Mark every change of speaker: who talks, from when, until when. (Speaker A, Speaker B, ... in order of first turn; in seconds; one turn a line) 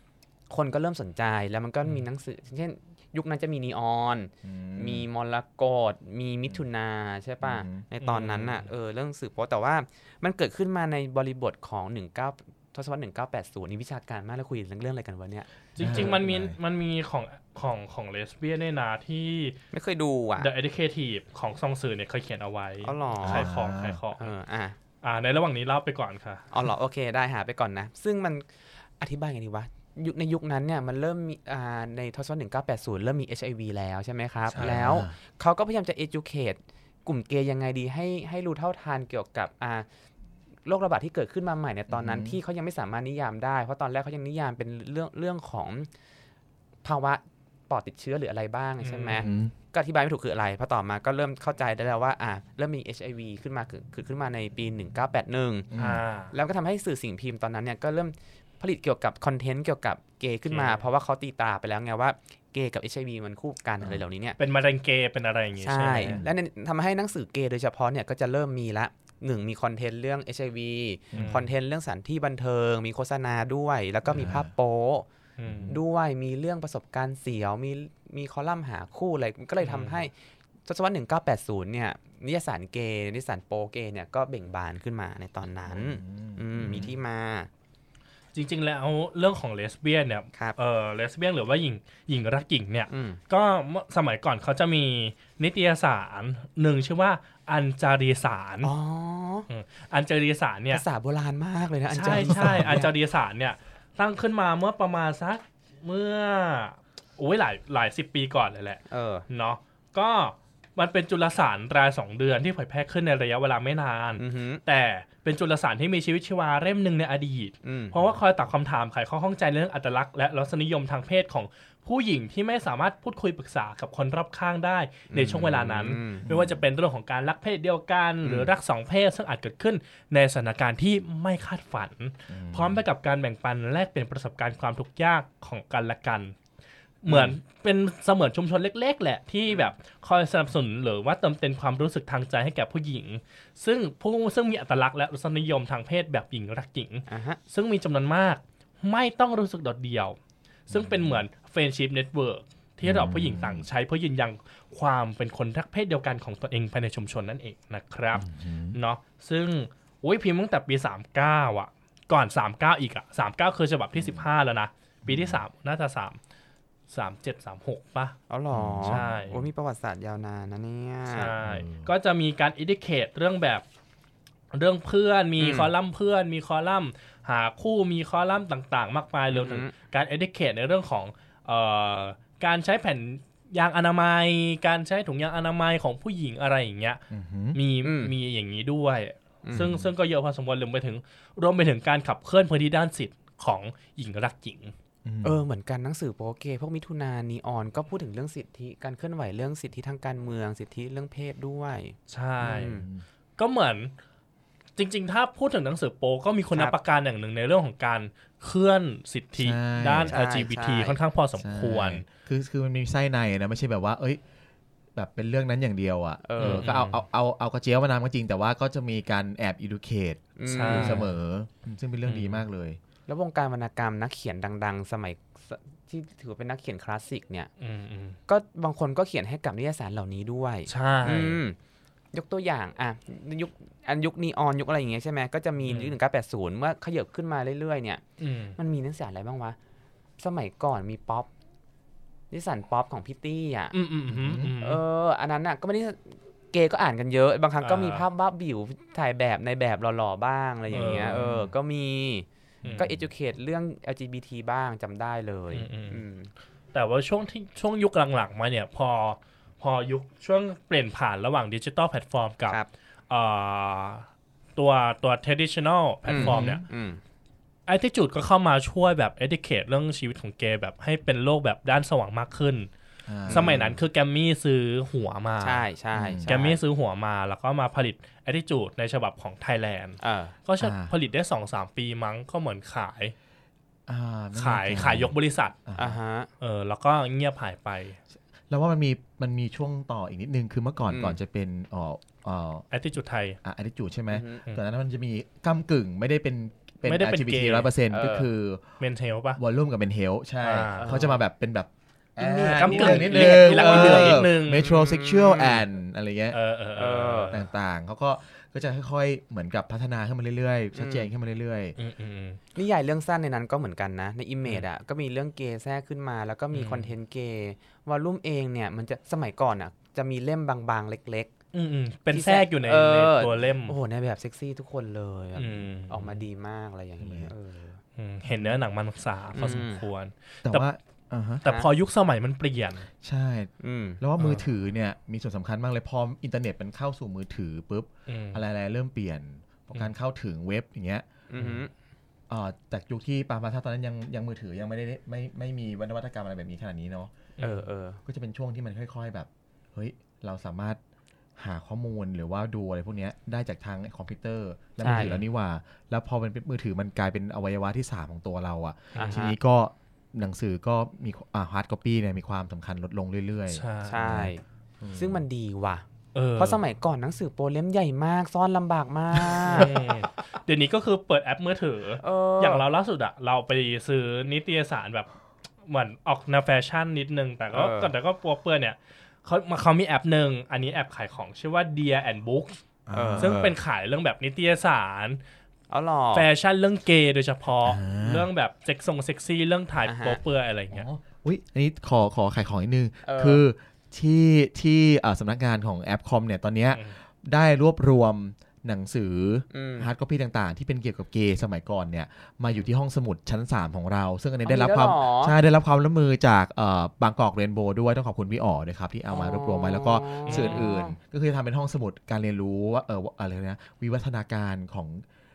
Speaker A: 0.5-16.1
Speaker B: 4.4-5.0
Speaker B: 7.4-7.8
Speaker C: 8.0-8.7
Speaker C: 15.8-19.6
Speaker B: 15.8-16.6
Speaker A: 19.7-20.5
Speaker C: 20.4-24.3
Speaker A: 22.8-23.5
Speaker B: 23.2-24.0
Speaker A: 24.2-24.8
Speaker C: 25.0-26.4
Speaker A: 26.5-28.4
Speaker A: 29.0-39.9
Speaker B: 34.5-35.1
Speaker A: 40.6-45.9
Speaker B: 41.9-42.4
Speaker A: 46.8-55.7
Speaker C: 48.8-49.2
Speaker B: 49.2-49.5
Speaker B: 55.7-56.0
Speaker C: 55.8-56.3
Speaker A: 56.3-64.4
Speaker C: 60.5-60.8
Speaker C: 64.4-66.2
Speaker A: 65.6-75.0
Speaker B: 66.0-66.3
Speaker B: 71.1-71.5
Speaker C: 71.1-71.5
Speaker B: 74.1-74.5
Speaker C: 75.4-75.8
Speaker B: 75.4-75.8
Speaker A: 75.7-80.1
Speaker C: 79.6-80.0
Speaker A: 80.7-87.5
Speaker B: 85.7-86.9
Speaker C: 88.3-98.7
Speaker A: 92.9-93.2
Speaker A: 98.6-99.5
Speaker C: 99.5-100.8
Speaker A: 100.7-102.9
Speaker C: 101.9-136.3
Speaker B: 102.1-102.8
Speaker A: 108.9-109.2
Speaker A: 114.2-114.6
Speaker A: 117.6-118.0
Speaker A: 125.1-126.2
Speaker B: 126.2-126.6
Speaker A: 128.2-128.5
Speaker B: 132.3-132.8
Speaker C: 137.0-150.2
Speaker A: 147.1-147.4
Speaker B: 150.7-151.2
Speaker C: 150.7-166.2
Speaker B: 152.8-153.7
Speaker B: 158.1-158.8
Speaker B: 163.9-164.3
Speaker B: 165.0-165.4
Speaker C: 166.9-168.2
Speaker A: 168.3-171.3
Speaker B: 168.5-169.4
Speaker C: 168.8-169.4
Speaker C: 171.1-173.6
Speaker B: 171.4-171.9
Speaker C: 174.5-187.0
Speaker A: 175.4-175.7
Speaker A: 179.3-179.7
Speaker B: 187.1-187.6
Speaker C: 187.5-194.7
Speaker A: 187.8-188.1
Speaker A: 189.4-189.7
Speaker B: 189.5-189.9
Speaker B: 195.0-195.4
Speaker A: 195.2-202.8
Speaker C: 202.1-202.8
Speaker B: 202.7-203.0
Speaker C: 203.4-203.9
Speaker C: 204.8-212.0
Speaker B: 209.4-210.1
Speaker A: 210.1-211.0
Speaker B: 211.4-214.2
Speaker B: 214.9-222.8
Speaker A: 216.2-216.7
Speaker C: 216.4-217.0
Speaker A: 220.4-221.1
Speaker C: 220.5-221.1
Speaker C: 222.0-222.4
Speaker A: 223.1-227.5
Speaker C: 227.6-228.2
Speaker A: 228.3-231.6
Speaker C: 230.7-231.4
Speaker A: 232.1-238.0
Speaker C: 235.6-235.9
Speaker C: 238.2-238.5
Speaker A: 238.6-239.6
Speaker A: 240.2-241.3
Speaker A: 242.3-243.7
Speaker C: 243.7-244.8
Speaker B: 244.1-244.5
Speaker A: 244.6-252.2
Speaker C: 247.6-248.0
Speaker C: 250.7-251.2
Speaker B: 250.8-251.5
Speaker B: 252.7-253.1
Speaker A: 252.8-256.3
Speaker C: 255.5-256.0
Speaker C: 256.7-266.6
Speaker A: 266.1-267.0
Speaker B: 266.1-266.6
Speaker C: 267.7-272.7
Speaker B: 273.1-273.8
Speaker C: 273.3-275.6
Speaker A: 275.4-276.6
Speaker B: 275.9-276.3
Speaker C: 276.2-283.1
Speaker A: 280.0-280.4
Speaker B: 280.6-280.9
Speaker B: 283.9-285.1
Speaker C: 284.3-285.5
Speaker B: 285.6-286.0
Speaker A: 285.8-286.3
Speaker C: 286.4-288.0
Speaker B: 288.5-292.6
Speaker A: 290.9-291.2
Speaker C: 292.7-293.4
Speaker B: 293.4-298.6
Speaker A: 294.1-294.4
Speaker C: 296.8-297.7
Speaker A: 297.9-298.3
Speaker C: 298.8-299.4
Speaker B: 299.4-306.4
Speaker C: 300.4-301.0
Speaker A: 300.8-301.2
Speaker A: 302.2-305.6
Speaker C: 302.6-304.7
Speaker C: 306.3-307.4
Speaker A: 306.8-307.4
Speaker B: 307.3-311.7
Speaker A: 310.7-311.1
Speaker C: 311.8-312.4
Speaker A: 312.5-321.3
Speaker C: 316.5-316.9
Speaker C: 321.5-323.8
Speaker A: 322.1-327.8
Speaker C: 325.4-326.2
Speaker B: 327.0-327.3
Speaker C: 327.9-330.7
Speaker A: 329.3-329.8
Speaker B: 330.4-331.4
Speaker C: 331.4-332.9
Speaker B: 333.0-341.1
Speaker A: 333.6-334.0
Speaker C: 334.2-334.4
Speaker C: 338.1-338.4
Speaker A: 341.3-341.7
Speaker B: 342.3-347.1
Speaker C: 347.4-347.6
Speaker A: 347.4-348.0
Speaker B: 348.1-350.8
Speaker B: 351.4-365.2
Speaker A: 354.8-355.2
Speaker A: 358.9-359.4
Speaker C: 363.5-364.2
Speaker A: 363.9-364.4
Speaker A: 364.9-365.8
Speaker C: 366.1-366.6
Speaker A: 366.4-369.7
Speaker C: 369.5-375.1
Speaker A: 372.0-372.6
Speaker C: 375.7-382.6
Speaker A: 377.5-377.9
Speaker B: 382.9-383.4
Speaker A: 382.9-383.6
Speaker C: 383.2-385.2
Speaker A: 385.7-386.3
Speaker C: 386.1-390.9
Speaker B: 387.6-388.3
Speaker A: 389.9-390.2
Speaker B: 390.7-415.1
Speaker A: 393.0-393.4
Speaker A: 399.5-399.9
Speaker A: 404.4-405.4
Speaker A: 409.1-410.9
Speaker C: 410.2-410.6